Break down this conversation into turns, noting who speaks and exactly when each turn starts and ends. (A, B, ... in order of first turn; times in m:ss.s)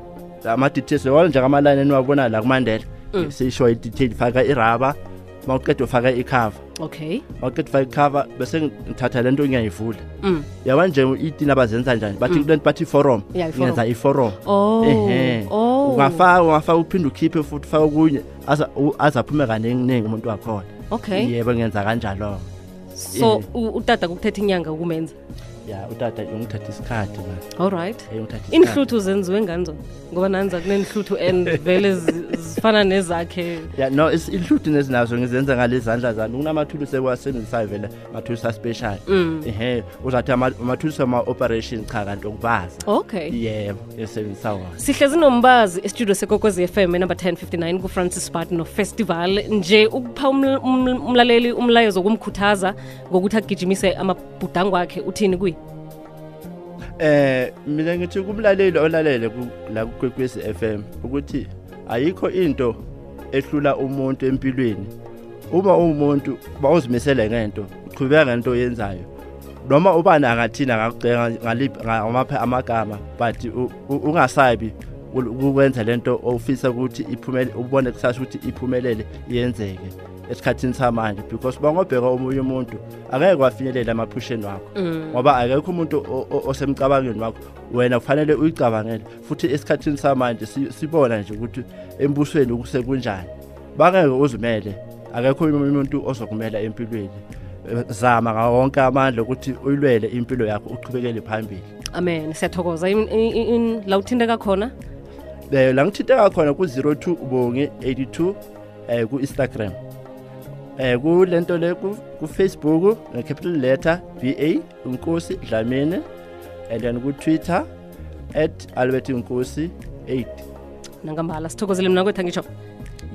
0:00.4-0:06.6 A
0:06.8-0:07.2 B
0:07.4-0:10.0 A
0:10.2-0:10.5 B
0:10.6-0:22.4 A
0:13.3-0:13.8 B
0:14.4-0:16.3 B
0:20.9-0:21.3 B
0:22.9-0:25.1 B
0:23.1-0:23.5 A
0:25.6-0:27.4 A
0:27.6-0:33.7 B
0:28.1-0:28.8 A
0:31.4-0:31.9 A
0:33.7-0:44.8 A
0:39.1-0:39.5 B
0:42.8-0:43.4 B
0:44.8-0:55.6 B
0:57.0-1:02.8 A
1:03.3-1:04.9 A
1:05.5-1:09.1 A
1:09.6-1:41.7 A
1:24.8-1:25.2 B
1:41.9-1:44.7 B
1:45.5-1:48.4 A
1:48.9-1:49.8 A
1:50.8-1:56.0 A
1:56.7-1:57.6 A
1:58.3-2:00.4 A
2:01.0-2:02.5 B